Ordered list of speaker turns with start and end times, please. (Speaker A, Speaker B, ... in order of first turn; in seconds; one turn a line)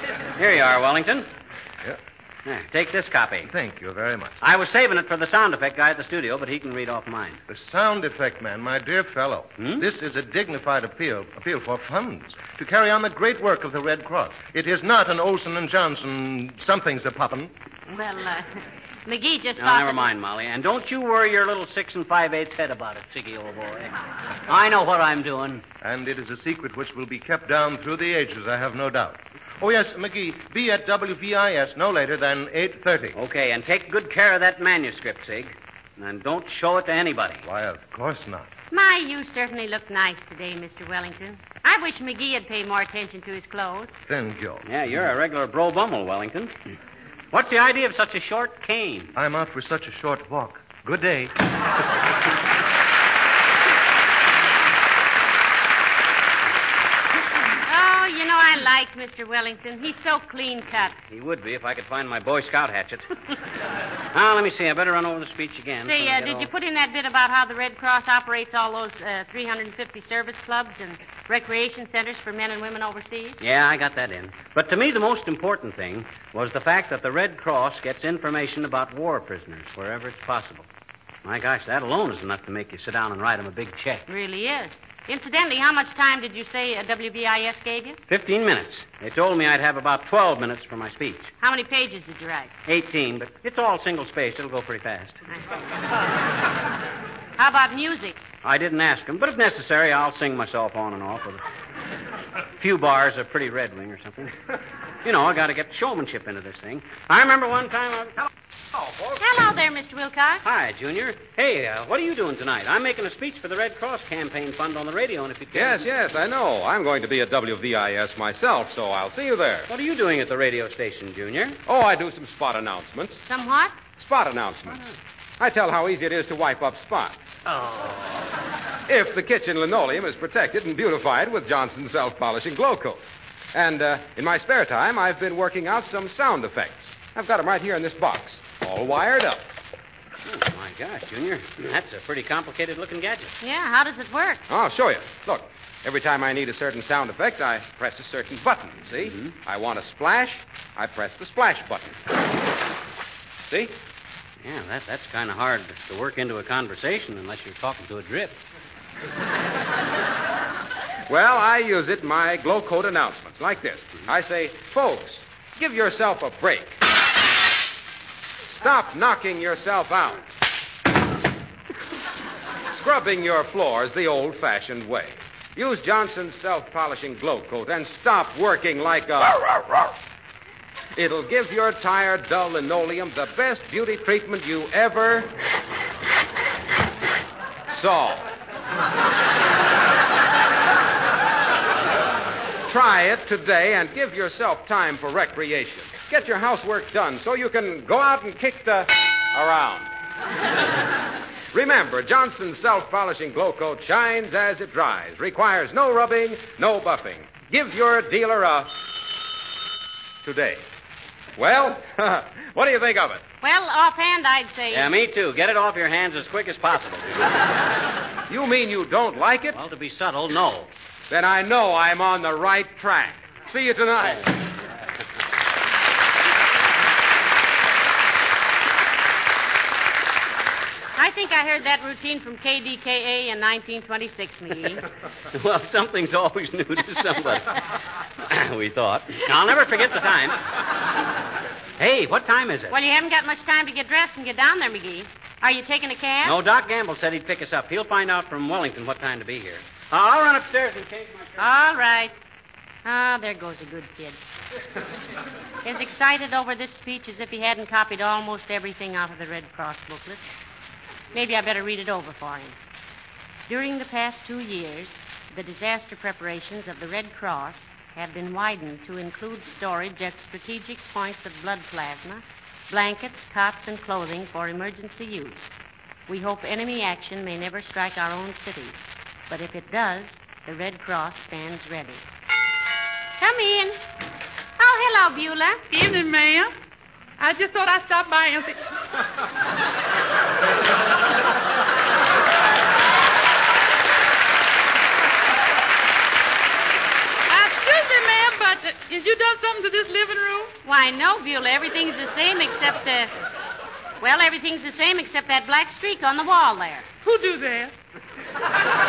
Speaker A: 0.4-1.3
Speaker A: 2.5-3.5
Speaker B: 3.5-4.4
Speaker A: 4.4-7.4
Speaker B: 7.5-17.5
Speaker C: 17.9-20.1
Speaker A: 19.6-23.9
Speaker A: 24.5-25.6
Speaker B: 25.8-33.1
Speaker A: 33.1-37.5
Speaker B: 37.4-38.5
Speaker C: 38.7-43.9
Speaker B: 44.1-44.7
Speaker A: 44.6-46.5
Speaker A: 47.3-49.1
Speaker B: 49.1-51.3
Speaker C: 57.6-60.9
Speaker A: 60.9-63.1
Speaker A: 64.1-66.5
Speaker C: 65.8-73.4
Speaker A: 73.4-80.7
Speaker A: 81.2-84.0
Speaker C: 84.1-88.0
Speaker A: 88.1-91.3
Speaker C: 91.4-92.5
Speaker A: 92.7-95.2
Speaker C: 97.4-98.2
Speaker A: 98.4-101.4
Speaker A: 102.6-104.4
Speaker A: 105.0-108.2
Speaker C: 109.2-110.5
Speaker A: 110.4-115.9
Speaker D: 115.5-119.7
Speaker A: 119.7-121.6
Speaker D: 121.7-123.2
Speaker C: 123.2-123.8
Speaker D: 123.9-127.3
Speaker A: 127.5-127.9
Speaker D: 128.9-139.4
Speaker A: 140.2-143.3
Speaker C: 143.4-144.4
Speaker D: 144.5-152.0
Speaker A: 149.1-149.3
Speaker D: 153.5-153.7
Speaker A: 154.4-158.4
Speaker D: 161.1-166.8
Speaker D: 168.5-170.2
Speaker D: 172.7-179.4
Speaker D: 180.9-185.3
Speaker D: 187.7-188.3
Speaker D: 192.7-199.9
Speaker D: 201.5-208.9
Speaker D: 210.2-210.6
Speaker D: 211.4-213.2
Speaker C: 213.4-214.9
Speaker A: 214.7-217.2
Speaker D: 218.3-219.6
Speaker A: 219.5-220.7
Speaker D: 221.1-224.3
Speaker C: 230.9-234.8
Speaker A: 235.3-237.6
Speaker A: 238.2-240.4
Speaker A: 241.8-242.8
Speaker C: 242.7-246.4
Speaker A: 246.2-251.5
Speaker C: 251.4-252.1
Speaker C: 252.8-254.2
Speaker C: 255.6-260.2
Speaker C: 261.1-262.6
Speaker C: 263.5-275.5
Speaker C: 276.1-282.0
Speaker C: 283.2-283.8
Speaker C: 284.6-285.6
Speaker E: 285.7-286.5
Speaker E: 287.2-288.6
Speaker E: 297.3-300.5
Speaker C: 300.6-303.1
Speaker C: 304.0-306.9
Speaker E: 307.0-307.7